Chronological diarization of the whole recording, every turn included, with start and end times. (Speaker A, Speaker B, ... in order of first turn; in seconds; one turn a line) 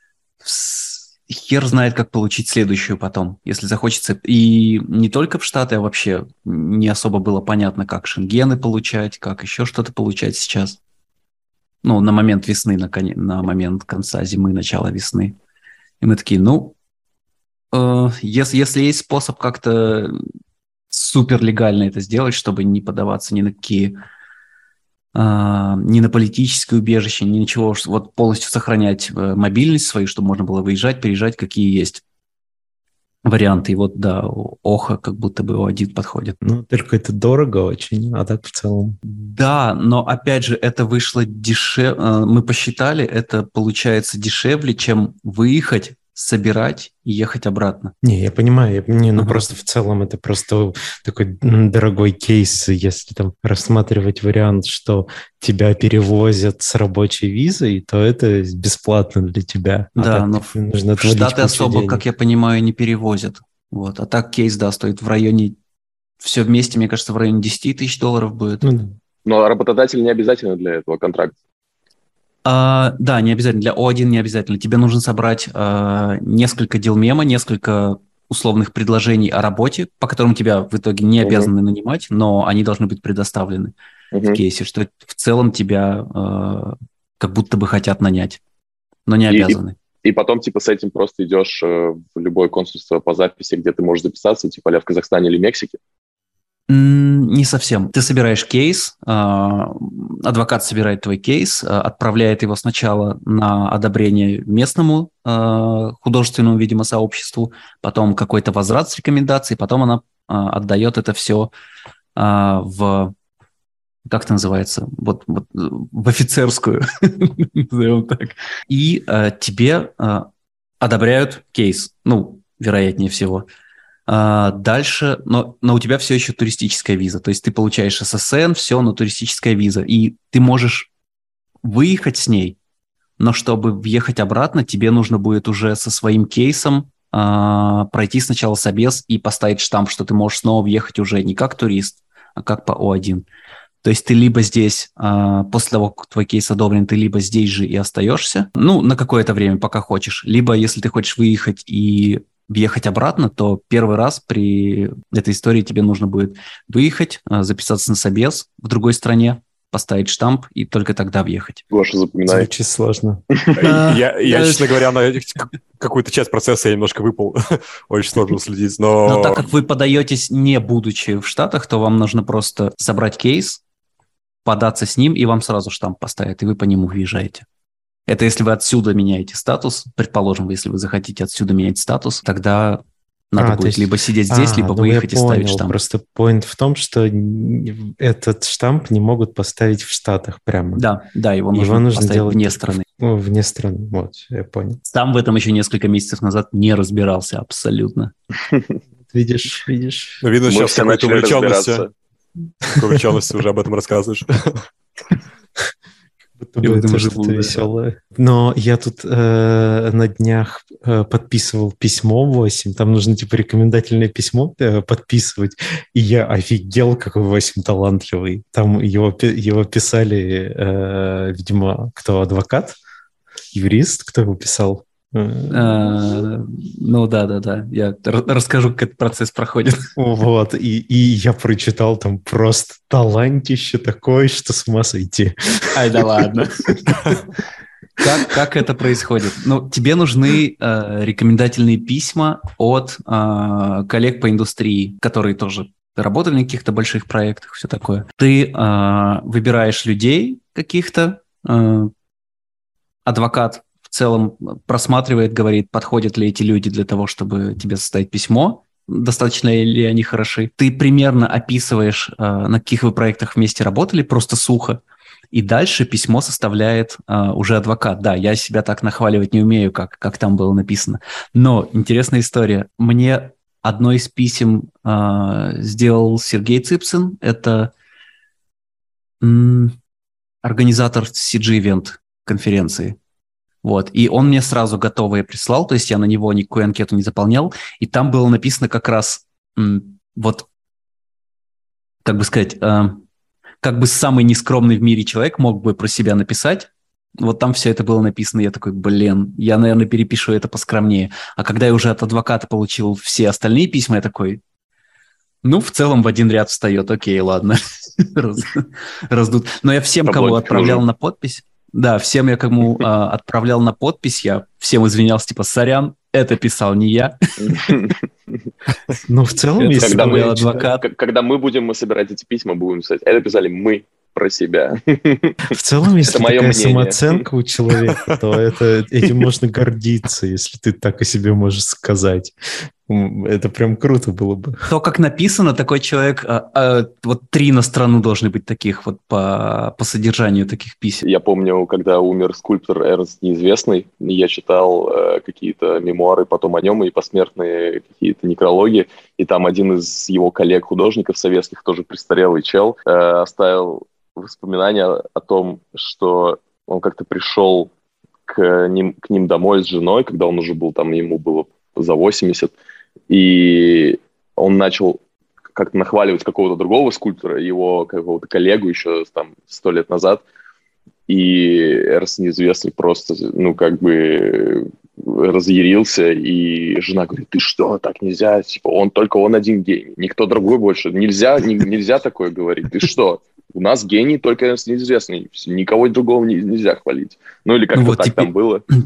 Speaker A: 0.4-10.8
Speaker A: 11.8-15.4
Speaker A: 16.0-16.8
Speaker A: 17.7-20.2
Speaker A: 20.9-24.0
Speaker A: 25.1-32.0
Speaker A: 33.3-36.4
Speaker B: 36.4-39.0
Speaker A: 39.0-47.9
Speaker B: 48.0-62.0
Speaker A: 49.2-49.5
Speaker A: 60.0-65.6
Speaker A: 66.2-68.7
Speaker B: 68.6-69.0
Speaker C: 69.2-71.3
Speaker A: 72.5-83.7
Speaker C: 81.2-81.5
Speaker C: 84.1-84.4
Speaker A: 84.3-88.4
Speaker A: 89.1-89.8
Speaker C: 89.3-95.8
Speaker A: 96.7-111.5
Speaker A: 112.2-113.1
Speaker A: 114.1-120.3
Speaker A: 120.8-123.5
Speaker A: 124.1-130.9
Speaker A: 131.6-132.6
Speaker A: 133.2-143.3
Speaker A: 143.8-161.6
Speaker C: 161.7-162.5
Speaker B: 162.3-163.2
Speaker C: 163.3-163.6
Speaker D: 163.6-169.5
Speaker A: 163.6-164.7
Speaker A: 169.1-173.6
Speaker A: 174.4-177.5
Speaker A: 178.1-185.8
Speaker B: 183.4-190.8
Speaker A: 190.8-192.8
Speaker B: 191.5-194.8
Speaker A: 194.8-198.1
Speaker C: 198.5-198.8
Speaker B: 199.0-200.2
Speaker D: 200.2-201.8
Speaker C: 200.5-201.9
Speaker D: 202.7-204.7
Speaker B: 206.4-222.8
Speaker A: 206.6-207.6
Speaker B: 223.5-225.8
Speaker A: 225.5-229.9
Speaker B: 230.0-236.1
Speaker A: 235.7-236.8
Speaker A: 238.0-251.9
Speaker A: 253.1-264.8
Speaker A: 265.3-277.7
Speaker A: 279.2-279.8
Speaker A: 280.4-283.0
Speaker A: 283.6-290.5
Speaker A: 292.1-293.0
Speaker A: 293.6-304.4
Speaker A: 305.4-317.9
Speaker C: 310.1-310.9
Speaker C: 317.4-318.1
Speaker B: 319.1-320.6
Speaker A: 319.6-320.8
Speaker C: 319.8-325.5
Speaker B: 325.5-334.6
Speaker C: 326.0-327.2
Speaker A: 334.7-341.1
Speaker C: 341.0-357.7
Speaker C: 358.3-362.6
Speaker C: 363.1-365.0
Speaker C: 365.6-370.2
Speaker C: 371.1-388.6
Speaker A: 387.7-388.3